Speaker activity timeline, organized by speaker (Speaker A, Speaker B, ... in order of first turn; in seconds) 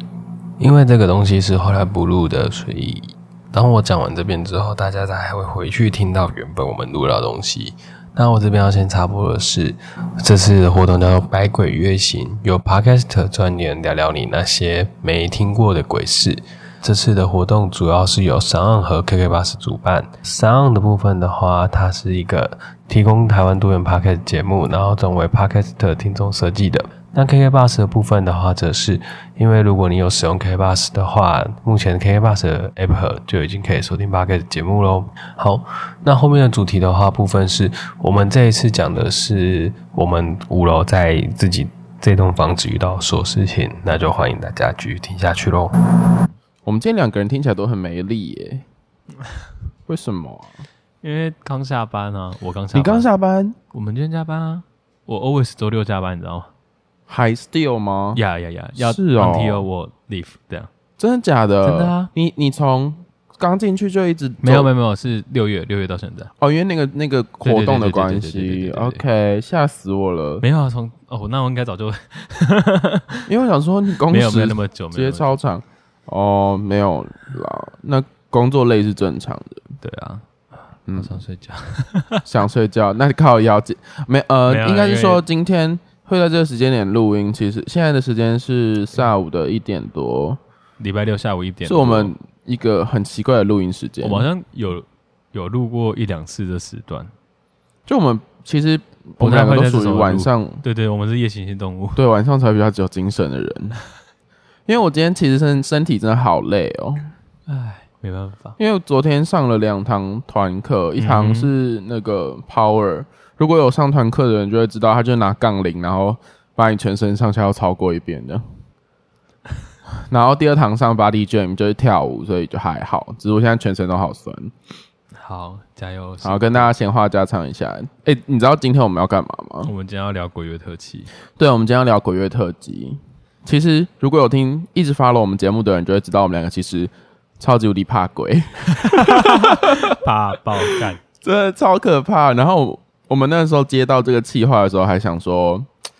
Speaker A: 0.6-45.7
Speaker B: 46.6-48.6, 49.9-50.5, 52.7-53.6, 57.1-58.2, 58.7-59.6, 61.0-64.7, 66.4-70.4, 73.3-79.6, 80.9-81.1, 82.2-90.4, 91.7-94.3, 97.8-100.6, 102.0-103.8, 104.7-107.1, 108.6-118.4, 120.1-124.5, 126.2-129.7, 131.4-140.0, 140.8-145.7
Speaker C: 51.0-53.1, 53.7-56.5, 58.1-60.7, 61.6-62.1, 64.4-66.3, 67.4-69.0, 70.4-73.3, 74.0-75.4, 79.8-80.2, 81.0-82.3, 84.5-85.2, 90.8-92.1, 94.0-97.1, 99.2-102.0, 107.5-108.6, 111.0-111.5, 125.2-126.7, 129.6-131.1, 138.8-141.0